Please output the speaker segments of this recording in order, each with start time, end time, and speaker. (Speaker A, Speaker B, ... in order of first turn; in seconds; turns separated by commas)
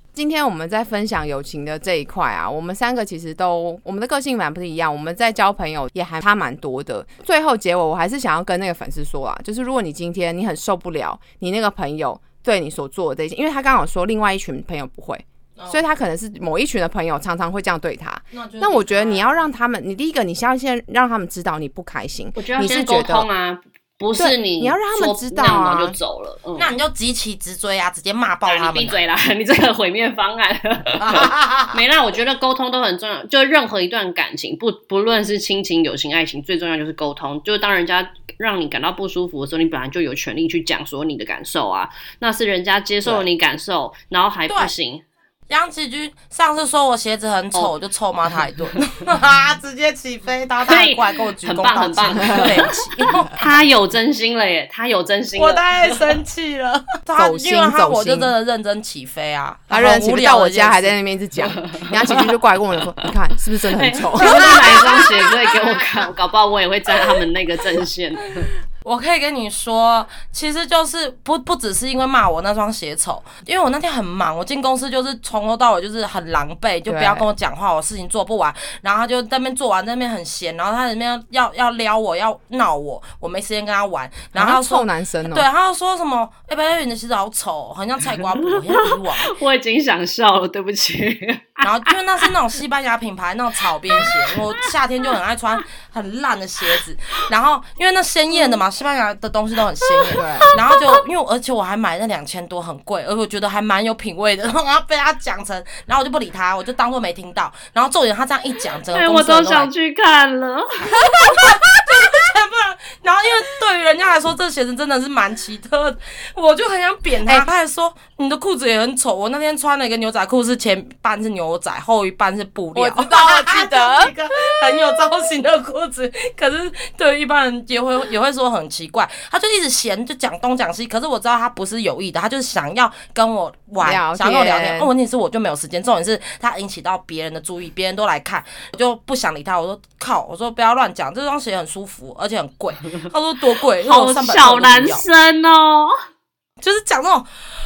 Speaker A: 0.1-23.3, Speaker B: 15.6-15.8, Speaker B: 18.3-19.4, Speaker C: 22.4-26.7, Speaker A: 24.2-26.0, Speaker B: 26.6-29.0, Speaker C: 28.5-45.0, Speaker B: 31.0-31.8, Speaker B: 45.5-53.5, Speaker C: 50.6-56.2, Speaker A: 52.2-52.5, Speaker B: 55.4-61.0, Speaker A: 57.2-58.3, Speaker A: 59.7-64.6, Speaker C: 61.6-62.3, Speaker B: 63.8-65.9, Speaker C: 63.8-68.5, Speaker B: 68.8-89.3, Speaker A: 76.9-77.3, Speaker A: 84.3-85.5, Speaker C: 88.4-92.3, Speaker B: 91.6-109.7, Speaker C: 93.9-94.7, Speaker C: 98.4-98.6, Speaker C: 99.8-101.0, Speaker A: 100.2-100.5, Speaker C: 108.9-111.6, Speaker B: 110.9-145.1, Speaker A: 122.8-124.1, Speaker A: 133.8-134.9, Speaker C: 143.8-146.0, Speaker B: 146.6-147.3